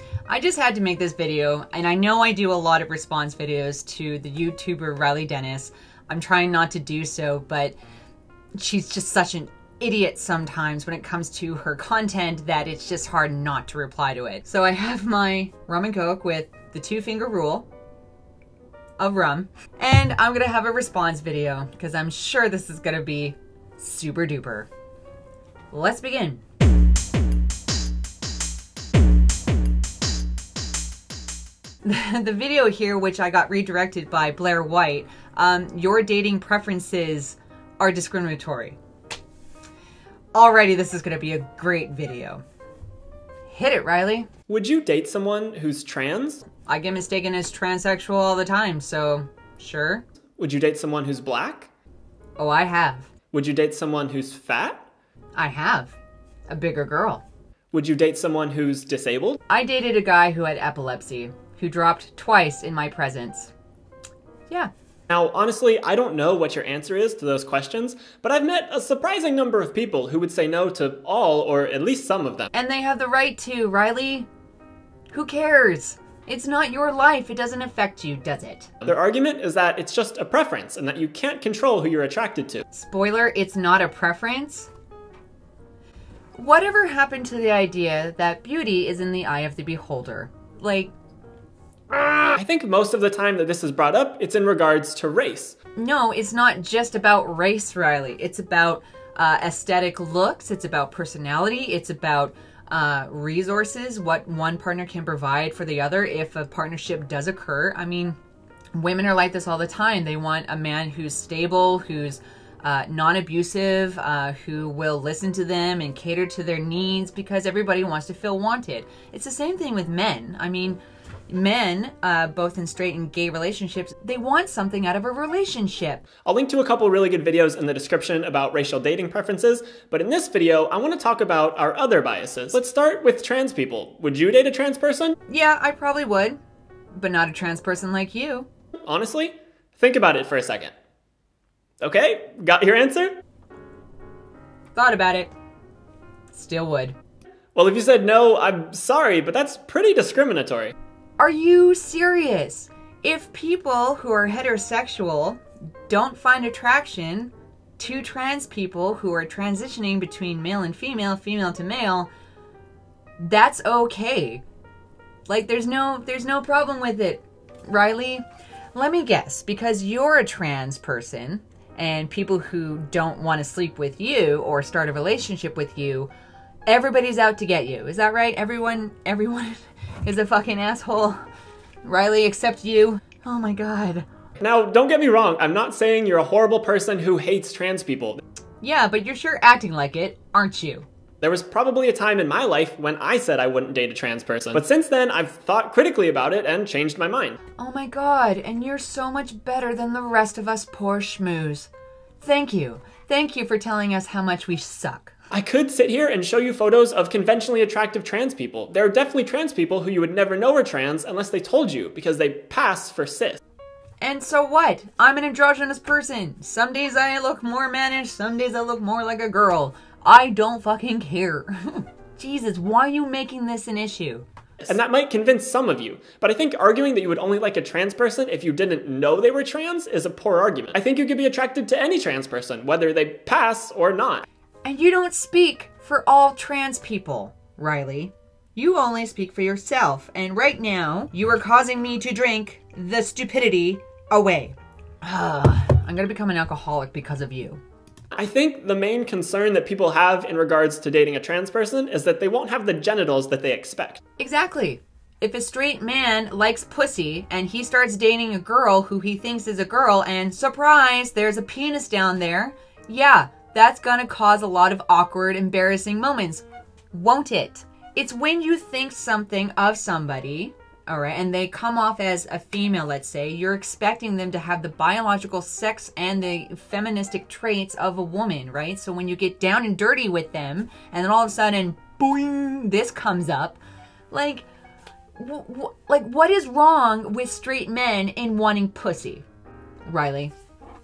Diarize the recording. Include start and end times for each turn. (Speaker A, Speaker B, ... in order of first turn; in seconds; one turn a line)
Speaker A: 0.3-7.8
Speaker A: 8.6-17.7
Speaker A: 19.0-24.7
Speaker A: 25.7-26.4
Speaker A: 31.8-38.8
Speaker A: 40.3-42.4
Speaker A: 43.5-44.3
Speaker B: 44.5-46.4
Speaker A: 46.6-50.0
Speaker B: 50.4-51.7
Speaker A: 52.4-53.1
Speaker B: 53.3-54.8
Speaker A: 55.4-56.0
Speaker A: 56.5-57.2
Speaker B: 57.7-59.4
Speaker A: 59.5-63.5
Speaker B: 65.1-72.5
Speaker A: 72.5-74.3
Speaker A: 75.1-78.7
Speaker B: 78.8-82.6
Speaker A: 82.7-84.7
Speaker A: 86.3-90.9
Speaker A: 91.9-92.3
Speaker B: 92.3-95.6
Speaker A: 95.8-108.2
Speaker A: 108.7-126.0
Speaker B: 126.2-135.2
Speaker A: 135.3-136.4
Speaker A: 136.9-138.5
Speaker B: 138.8-140.7
Speaker B: 141.8-143.2
Speaker A: 144.7-145.3
Speaker A: 146.3-146.9
Speaker B: 147.5-150.7
Speaker A: 151.2-162.1
Speaker A: 163.2-164.4
Speaker A: 165.3-168.2
Speaker A: 168.7-176.1
Speaker A: 176.7-181.2
Speaker A: 181.8-184.1
Speaker B: 184.4-188.2
Speaker A: 188.6-190.8
Speaker B: 191.2-197.4
Speaker A: 197.6-201.7
Speaker A: 202.2-205.1
Speaker B: 205.3-213.4
Speaker A: 214.0-224.2
Speaker B: 224.6-234.2
Speaker A: 234.6-247.6
Speaker B: 248.1-254.0
Speaker A: 254.2-283.6
Speaker A: 284.1-284.4
Speaker A: 285.2-289.2
Speaker A: 289.9-290.3